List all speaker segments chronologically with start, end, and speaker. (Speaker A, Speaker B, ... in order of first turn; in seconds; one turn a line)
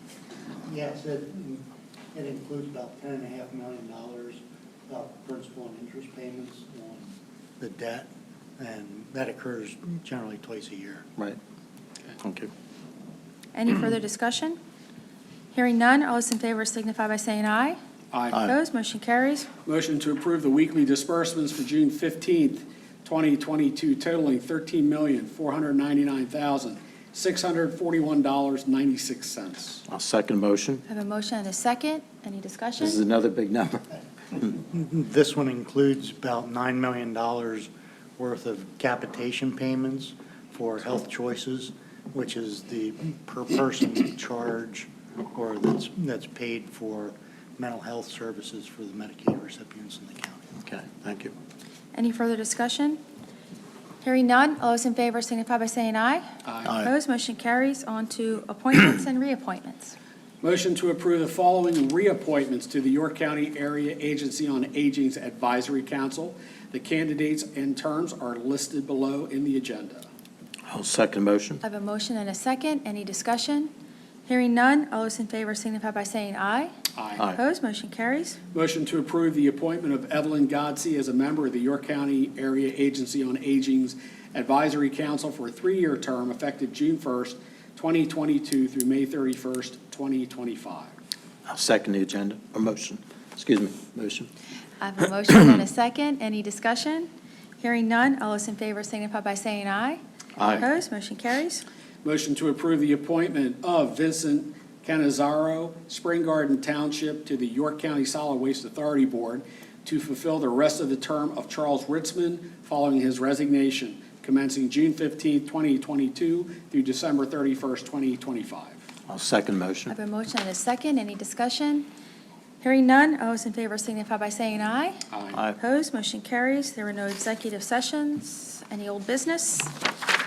Speaker A: 0.7-11.1
Speaker B: 12.2-12.5
Speaker C: 13.5-14.6
Speaker C: 15.5-17.8
Speaker D: 18.1-18.4
Speaker C: 18.4-19.5
Speaker D: 19.7-29.8
Speaker B: 29.9-30.8
Speaker C: 30.9-33.0
Speaker B: 32.8-33.9
Speaker A: 34.5-50.5
Speaker B: 50.6-51.3
Speaker C: 51.9-53.0
Speaker C: 54.0-56.3
Speaker D: 56.5-56.7
Speaker C: 56.8-60.0
Speaker D: 60.4-70.1
Speaker B: 70.7-71.6
Speaker C: 71.6-73.7
Speaker C: 74.3-76.7
Speaker D: 77.0-77.2
Speaker C: 77.3-78.4
Speaker D: 78.5-90.9
Speaker B: 91.5-94.3
Speaker C: 94.8-97.1
Speaker C: 97.6-100.0
Speaker B: 100.4-100.7
Speaker C: 100.5-101.7
Speaker D: 102.0-118.8
Speaker B: 119.1-120.0
Speaker C: 119.9-121.9
Speaker C: 122.6-125.0
Speaker D: 125.1-125.4
Speaker C: 125.6-129.8